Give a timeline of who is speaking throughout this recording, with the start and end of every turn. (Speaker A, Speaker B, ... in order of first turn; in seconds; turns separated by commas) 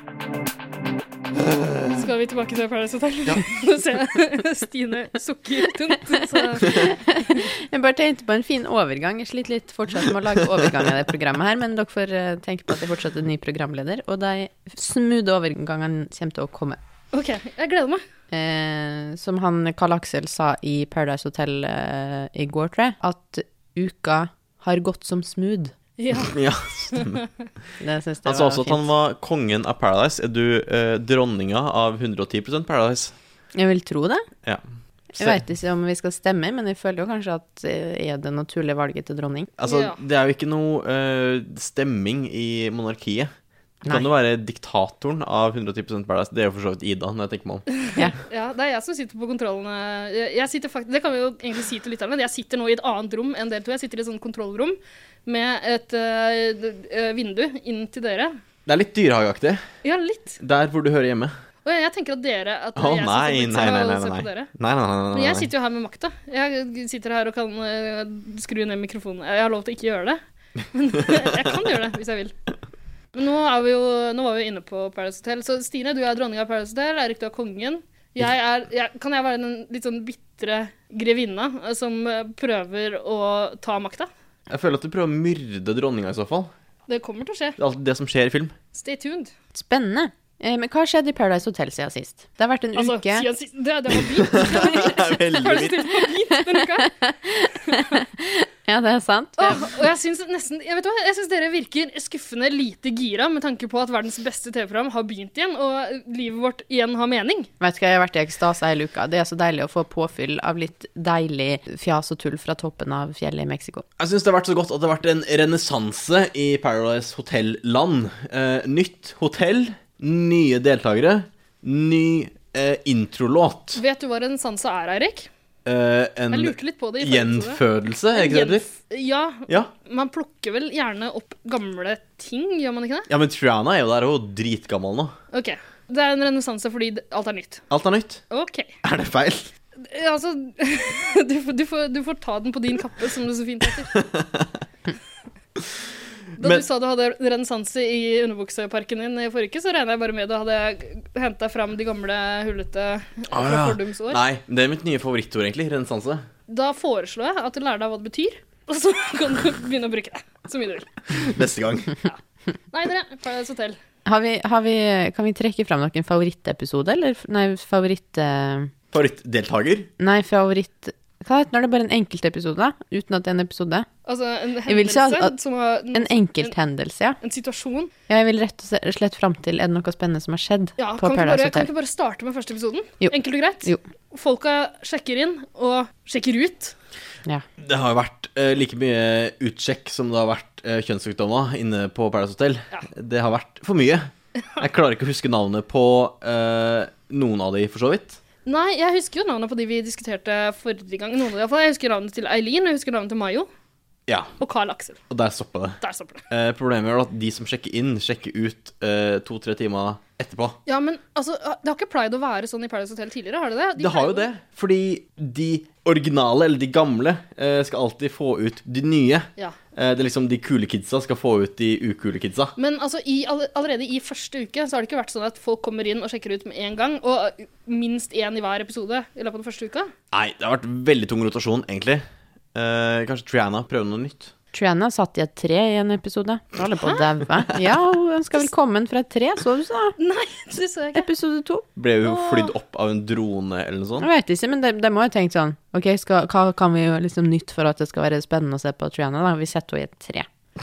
Speaker A: 2.0-6.9, Speaker B: 6.4-16.8, Speaker A: 17.1-18.0, Speaker B: 18.3-25.7, Speaker A: 26.0-26.4, Speaker C: 26.3-27.2, Speaker B: 27.8-28.9, Speaker C: 28.2-33.1, Speaker B: 33.5-34.2, Speaker B: 35.1-39.5, Speaker C: 39.6-43.3, Speaker A: 39.7-40.0, Speaker C: 43.9-47.7, Speaker A: 48.1-58.4, Speaker C: 58.6-59.6, Speaker A: 59.8-60.4, Speaker C: 60.4-61.3, Speaker A: 61.6-64.5, Speaker C: 62.8-65.5, Speaker A: 65.1-70.2, Speaker A: 70.7-72.3, Speaker A: 73.1-84.1, Speaker C: 84.5-86.5, Speaker A: 86.9-87.6, Speaker C: 87.6-88.5, Speaker A: 88.7-89.3, Speaker B: 89.5-93.3, Speaker A: 92.7-96.9, Speaker C: 94.3-96.0, Speaker B: 96.5-99.7, Speaker A: 97.7-98.0, Speaker A: 99.4-107.5, Speaker B: 107.6-113.8, Speaker C: 114.0-123.8, Speaker A: 123.7-125.3, Speaker C: 125.7-128.7, Speaker A: 126.3-127.6, Speaker A: 128.1-133.1, Speaker C: 133.1-135.1, Speaker A: 135.3-137.6, Speaker C: 137.7-138.2, Speaker A: 138.3-138.7, Speaker C: 138.8-139.5, Speaker A: 139.8-143.9, Speaker C: 143.9-144.6, Speaker A: 146.4-154.2, Speaker C: 146.4-146.6, Speaker C: 153.3-156.2, Speaker A: 156.5-160.9, Speaker C: 161.1-162.0, Speaker A: 162.7-163.8, Speaker B: 164.1-168.7, Speaker C: 168.9-169.9, Speaker B: 170.0-173.9, Speaker A: 174.1-176.5, Speaker B: 174.7-175.3, Speaker B: 175.9-177.2, Speaker A: 177.2-177.9, Speaker B: 178.1-181.7, Speaker A: 180.8-186.7, Speaker B: 183.0-183.8, Speaker C: 187.6-198.2, Speaker A: 198.4-203.5, Speaker C: 204.1-204.4, Speaker A: 204.4-205.0, Speaker C: 205.1-205.8, Speaker A: 205.8-206.2, Speaker C: 206.3-210.6, Speaker A: 210.7-214.3, Speaker C: 213.8-222.5, Speaker A: 222.6-229.9, Speaker C: 230.1-232.0, Speaker C: 232.5-234.3, Speaker B: 234.5-239.9, Speaker A: 240.0-241.1, Speaker B: 240.9-241.6, Speaker C: 241.8-244.1, Speaker A: 242.0-242.5, Speaker B: 244.0-250.3